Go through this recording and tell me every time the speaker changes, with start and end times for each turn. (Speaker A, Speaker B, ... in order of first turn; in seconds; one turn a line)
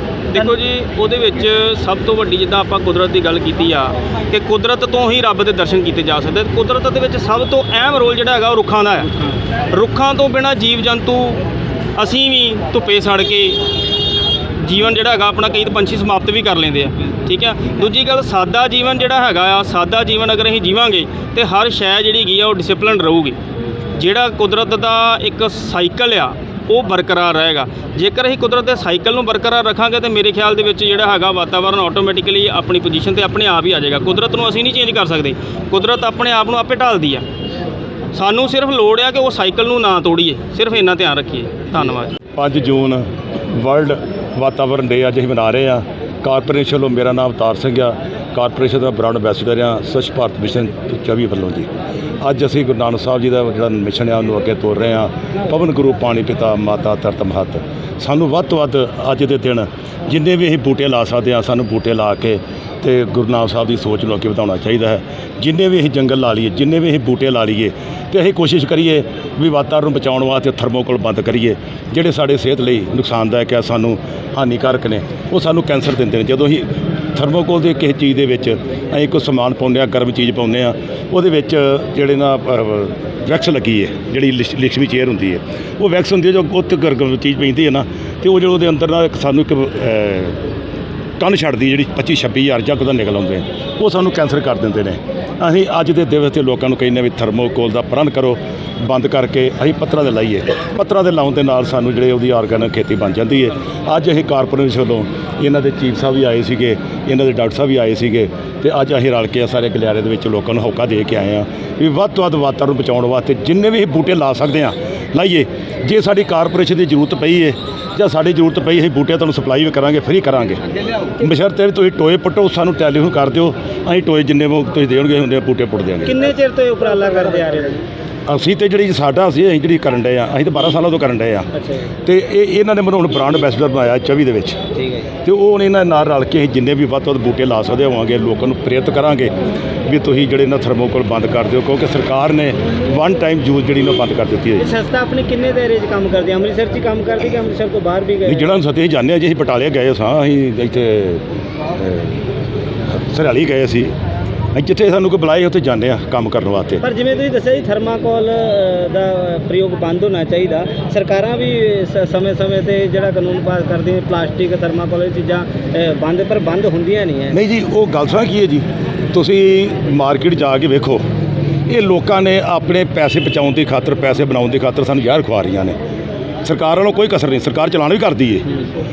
Speaker A: 0.3-9.1
Speaker A: 9.7-11.4
Speaker A: 12.0-13.6
Speaker A: 14.6-23.4
Speaker A: 23.9-37.2
Speaker A: 38.1-42.1
Speaker B: 42.4-51.7
Speaker B: 52.2-90.4
Speaker B: 91.2-120.6
Speaker B: 121.2-126.2
Speaker C: 126.0-127.8
Speaker B: 128.3-131.5
Speaker C: 131.5-131.9
Speaker B: 132.1-134.6
Speaker C: 134.8-135.1
Speaker B: 135.2-139.3
Speaker B: 139.8-144.7
Speaker C: 144.6-148.6
Speaker B: 148.2-152.2
Speaker B: 152.9-153.9
Speaker B: 154.5-156.8
Speaker C: 156.8-167.4
Speaker B: 167.3-171.0
Speaker B: 171.7-175.8
Speaker B: 176.4-178.5